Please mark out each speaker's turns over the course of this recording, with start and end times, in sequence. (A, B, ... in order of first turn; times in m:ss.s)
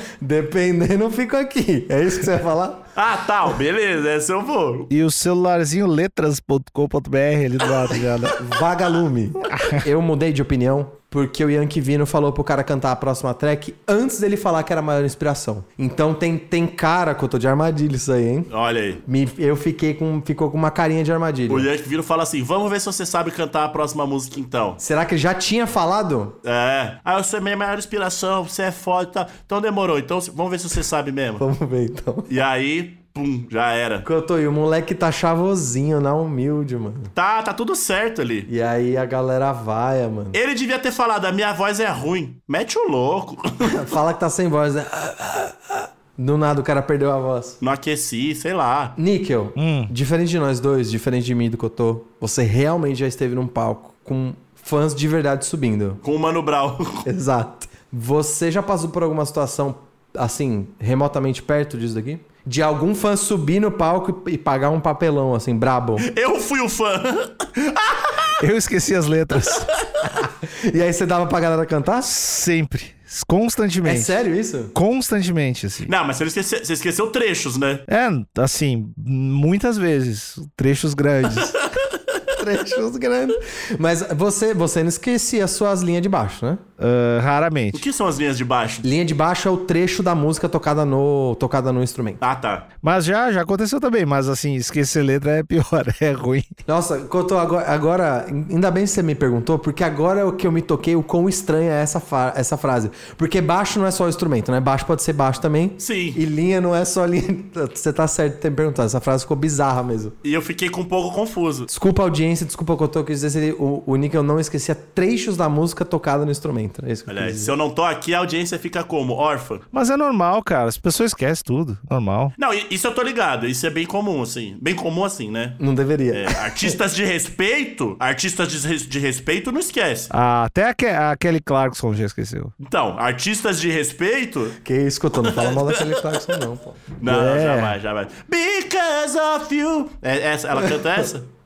0:00.2-0:02.9 A
0:03.0-0:04.9 B
0:04.9-0:08.4 C
0:08.4-0:18.5 A
0:09.5-0:09.8 C
0:18.5-0:19.0 B
0:19.0-0:21.7 A
0:21.5-0:24.8 B
0:24.8-0:26.4 A
0:26.4-0:31.5 B
0:31.4-0:32.3 A
0:32.3-0:34.1 B
0:34.0-0:37.1 A
0:37.1-0:38.5 B
0:38.5-0:40.4 A
0:40.3-0:43.7 B
0:43.7-0:47.6 A
0:47.6-0:49.0 B
0:49.0-0:56.0 A
0:49.6-0:49.9 C
0:56.0-0:57.0 B
0:57.0-1:06.1 A
1:06.0-1:08.2 B
1:08.4-1:09.7 C
1:10.0-1:12.1 A
1:12.0-1:14.1 C
1:13.8-1:14.7 A
1:14.7-1:15.9 C
1:15.8-1:17.8 B
1:17.9-1:21.5 C
1:22.4-1:26.6 A
1:26.8-1:27.8 C
1:27.7-1:28.9 B
1:28.8-1:32.2 A
1:32.2-1:32.7 B
1:32.8-1:36.5 C
1:36.7-1:50.2 A
1:45.8-1:46.2 B
1:50.2-1:51.7 B
1:51.7-1:57.5 A
1:57.1-1:59.6 B
1:59.7-2:02.3 C
2:02.4-2:10.1 B
2:05.6-2:06.8 A
2:10.1-2:12.5 C
2:12.6-2:14.6 B
2:14.6-2:17.0 A
2:15.2-2:16.1 B
2:17.0-2:21.3 B
2:17.1-2:17.8 C